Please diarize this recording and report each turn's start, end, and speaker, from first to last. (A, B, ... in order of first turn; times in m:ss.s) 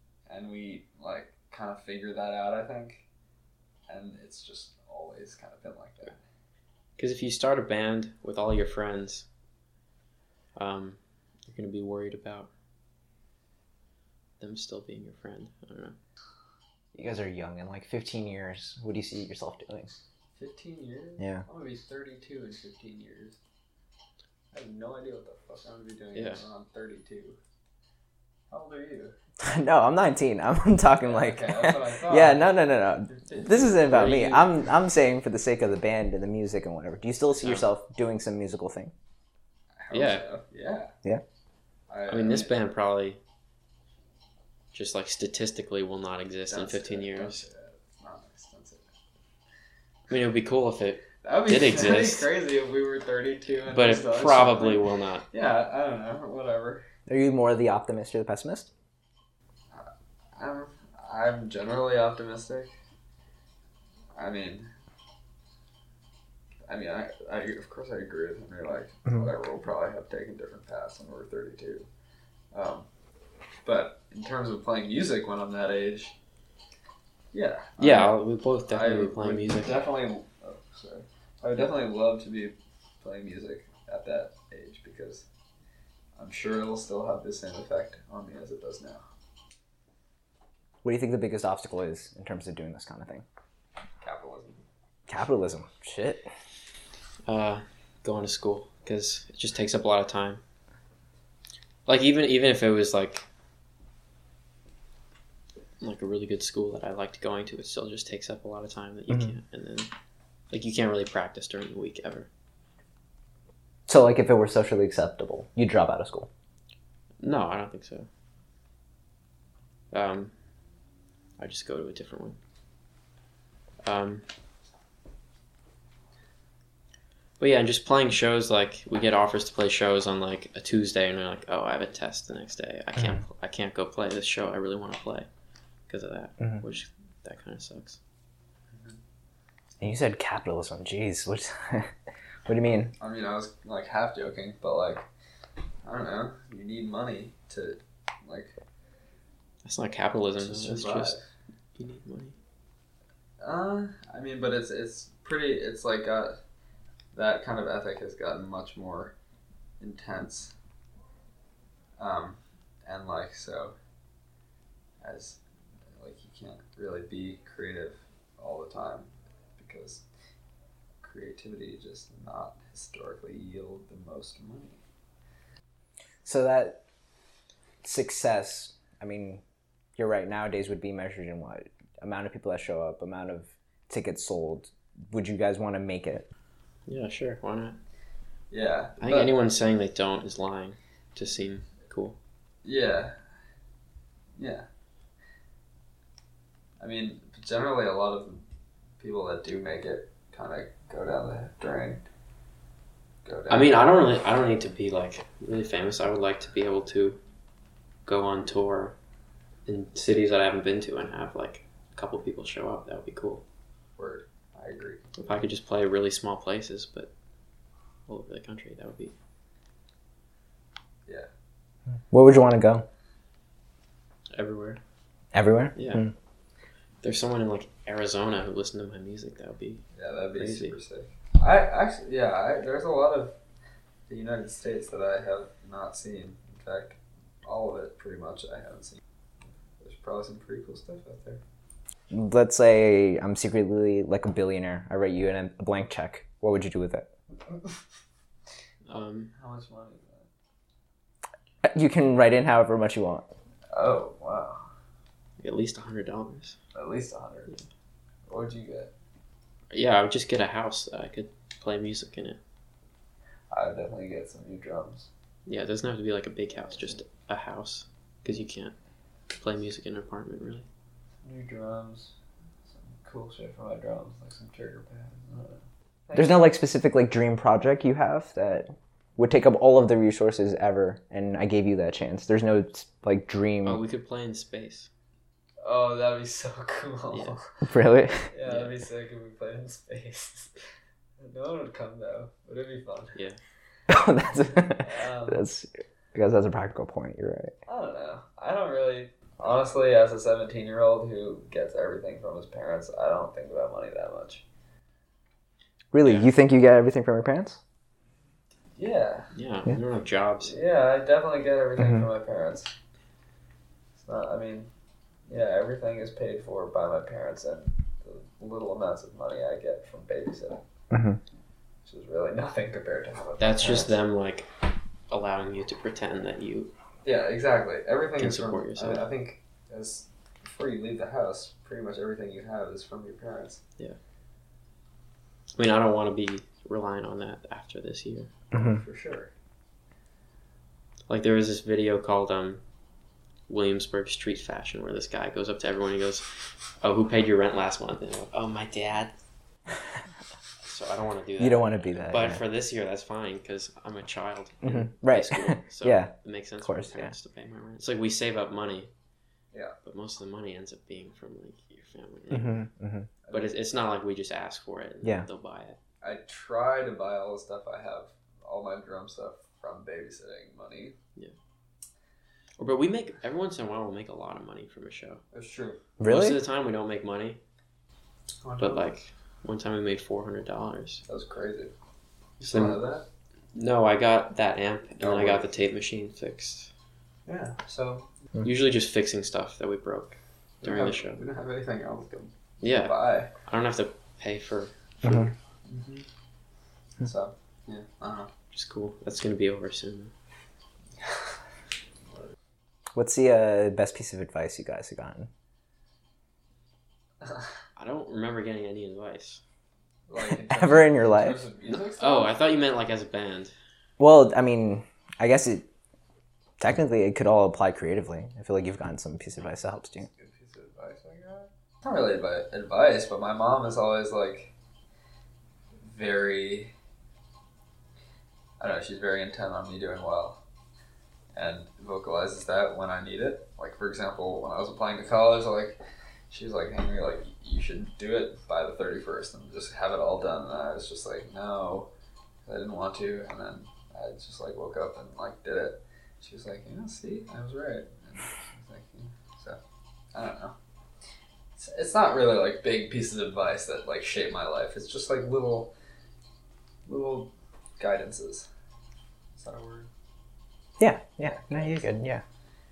0:00.3-0:03.1 A
0:03.9-0:06.2 A
0:07.0-0:09.3 B
0:10.6-0:12.5 B
0:14.4-0:16.0 B
0:16.9-0:20.0 C
0:20.4-0:23.4 A
0:21.2-0:21.4 C
0:24.5-0:27.4 A
0:26.1-0:26.4 B
0:28.5-0:29.2 A
0:29.4-0:38.9 C
0:31.0-0:34.2 A
0:33.9-0:34.5 B
0:37.4-0:37.7 B
0:39.8-0:40.9 A
0:39.9-0:40.3 B
0:41.9-0:42.5 A
0:42.1-0:43.2 B
0:44.7-0:47.4 B
0:46.5-0:48.9 A
0:50.1-0:52.3 B
0:51.2-0:56.8 A
0:53.7-0:55.3 B
0:57.1-0:58.7 C
0:59.7-1:02.7 A
1:04.2-1:04.7 A
1:06.7-1:11.9 A
1:12.5-1:12.9 A
1:13.6-1:16.2 A
1:17.3-1:18.2 A
1:17.8-1:19.8 B
1:18.7-1:25.3 A
1:26.2-1:29.0 A
1:30.8-1:33.2 C
1:34.0-1:34.6 A
1:35.1-1:36.3 C
1:37.3-1:40.4 B
1:41.9-1:43.3 B
1:45.8-1:49.9 B
1:50.5-1:52.3 B
1:53.9-1:56.3 C
1:57.2-1:58.1 B
1:59.9-2:00.3 B
2:01.4-2:02.4 B
2:03.8-2:04.3 B
2:07.4-2:15.3 B
2:13.0-2:13.2 C
2:15.9-2:18.0 B
2:18.7-2:19.0 A
2:19.8-2:21.9 C
2:22.5-2:22.9 C
2:23.0-2:25.1 A
2:25.8-2:28.5 A
2:29.6-2:31.2 B
2:30.4-2:31.2 A
2:31.8-2:32.4 B
2:33.4-2:36.4 A
2:37.1-2:39.1 A
2:39.8-2:40.5 A
2:42.0-2:43.8 A
2:45.0-2:45.4 A
2:46.0-2:50.0 A
2:51.0-2:54.8 A
2:56.2-2:56.8 C
2:57.8-2:59.4 C
3:00.0-3:06.3 C
3:06.9-3:07.8 B
3:08.5-3:09.3 A
3:09.0-3:12.2 B
3:12.6-3:13.2 A
3:14.4-3:14.6 A
3:16.8-3:18.4 A
3:19.0-3:22.0 A
3:23.2-3:23.8 A
3:23.5-3:27.2 B
3:28.1-3:29.0 B
3:29.7-3:33.4 B
3:34.0-3:35.1 A
3:35.2-3:37.1 B
3:38.1-3:39.2 B
3:42.1-3:42.9 C
3:44.3-3:44.8 B
3:45.3-3:46.1 C
3:45.8-3:46.0 B
3:47.0-3:49.8 B
3:50.0-3:53.4 A
3:50.4-3:50.8 B
3:54.1-3:59.0 A
3:59.8-4:01.4 A
4:02.1-4:07.1 C
4:07.5-4:07.8 A
4:08.9-4:09.3 B
4:09.3-4:10.3 A
4:11.6-4:13.3 C
4:13.7-4:14.7 A
4:15.4-4:16.6 B
4:16.7-4:17.5 A
4:18.3-4:18.9 A
4:19.7-4:22.4 B
4:23.5-4:25.1 A
4:25.5-4:28.8 B
4:29.4-4:30.7 B
4:31.2-4:32.1 A
4:32.7-4:36.5 A
4:36.1-4:43.8 C
4:43.6-4:44.9 B
4:45.6-4:47.5 A
4:47.1-4:47.4 B
4:47.6-4:48.3 C
4:48.3-4:50.6 A
4:48.5-4:48.8 B
4:51.2-4:53.2 A
4:53.9-4:57.5 C
4:54.6-4:55.4 A
4:57.7-5:04.4 A
5:05.9-5:07.6 C
5:06.0-5:06.3 B
5:08.8-5:09.3 A
5:09.3-5:10.6 B
5:10.4-5:12.7 A
5:11.8-5:12.0 C
5:14.0-5:14.7 A
5:15.3-5:20.6 A
5:20.9-5:21.2 C
5:21.8-5:23.9 A
5:23.4-5:24.5 B
5:25.1-5:26.7 B
5:27.0-5:33.6 A
5:28.2-5:29.1 B
5:35.6-5:38.3 B
5:38.5-5:38.8 C
5:38.6-5:39.3 A
5:41.1-5:42.6 B
5:43.5-5:46.3 B
5:46.8-5:49.2 B
5:50.6-5:58.9 B
5:51.4-5:52.4 C
5:54.6-5:57.1 C
5:59.8-6:02.6 B
6:02.3-6:03.1 C
6:03.2-6:03.5 A
6:03.3-6:05.8 B
6:06.0-6:11.0 A
6:12.6-6:15.2 B
6:15.3-6:15.8 A
6:16.0-6:16.4 C
6:16.1-6:17.4 B
6:18.4-6:18.9 A
6:18.6-6:21.0 B
6:21.1-6:21.7 A
6:22.4-6:22.8 B
6:22.4-6:23.0 A
6:23.6-6:26.7 B
6:25.0-6:25.5 A
6:27.3-6:28.1 A
6:28.4-6:31.2 B
6:30.6-6:33.3 A
6:32.6-6:35.3 B
6:35.0-6:35.3 C
6:35.7-6:36.0 A
6:37.0-6:38.3 A
6:38.5-6:40.1 B
6:42.9-6:45.3 C
6:47.2-6:47.5 A
6:47.8-6:49.4 B
6:50.1-6:52.4 A
6:50.2-6:51.4 C
6:51.7-6:53.5 B
6:54.0-6:55.7 C
6:56.6-7:00.1 C
7:00.0-7:04.5 A
7:05.8-7:06.7 A
7:08.6-7:10.4 A
7:11.3-7:15.8 A
7:16.3-7:21.9 A
7:22.5-7:29.6 A
7:30.1-7:30.6 A
7:31.6-7:35.7 A
7:36.9-7:38.5 A
7:39.4-7:39.9 A
7:40.8-7:42.2 C
7:41.2-7:42.0 A